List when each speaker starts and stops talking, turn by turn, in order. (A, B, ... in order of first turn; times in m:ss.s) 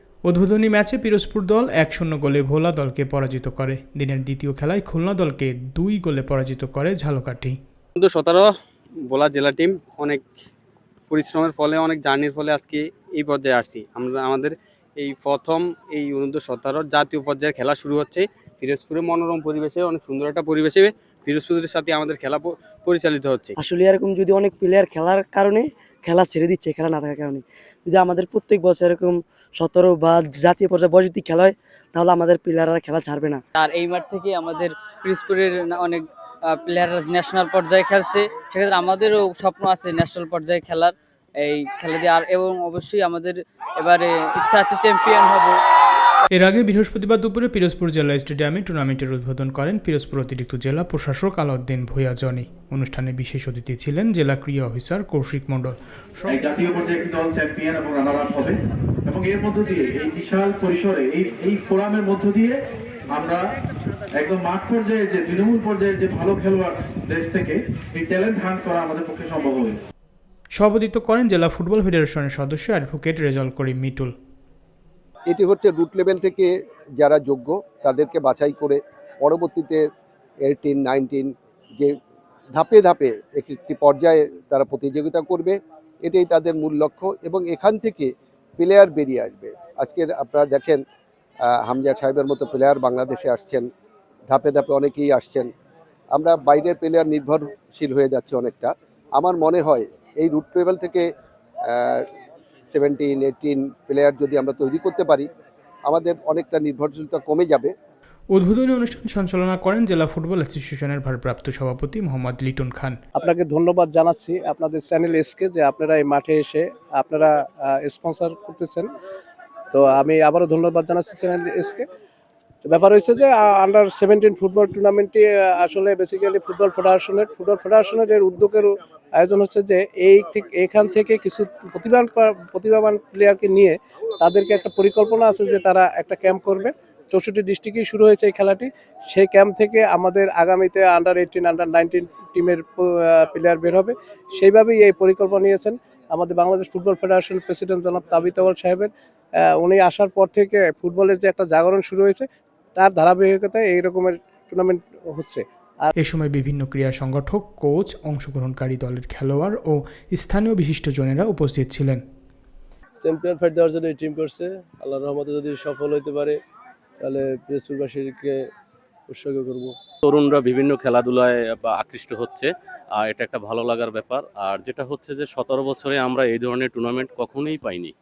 0:00.2-0:07.6 A
0:08.0-0:10.3 B
0:11.1-0:23.5 B
0:23.6-0:33.4 C
0:33.6-0:45.6 D
0:46.3-0:56.2 A
0:56.3-1:02.6 E
1:03.1-1:03.6 E
1:04.1-1:09.8 E
1:10.6-1:14.1 A
1:15.3-1:19.8 F
1:20.4-1:21.9 F
1:22.6-1:30.8 F
1:31.4-1:33.7 F
1:34.3-1:35.5 F
1:36.1-1:41.1 F
1:41.7-1:42.0 F
1:42.7-1:45.3 F
1:45.9-1:47.7 F
1:48.3-1:53.0 A
1:53.2-1:58.9 G
1:59.7-2:01.9 G
2:02.6-2:35.9 G
2:36.0-2:42.0 A
2:43.0-2:46.4 H
2:47.0-2:48.4 H
2:49.1-2:49.7 H
2:50.0-2:57.9 I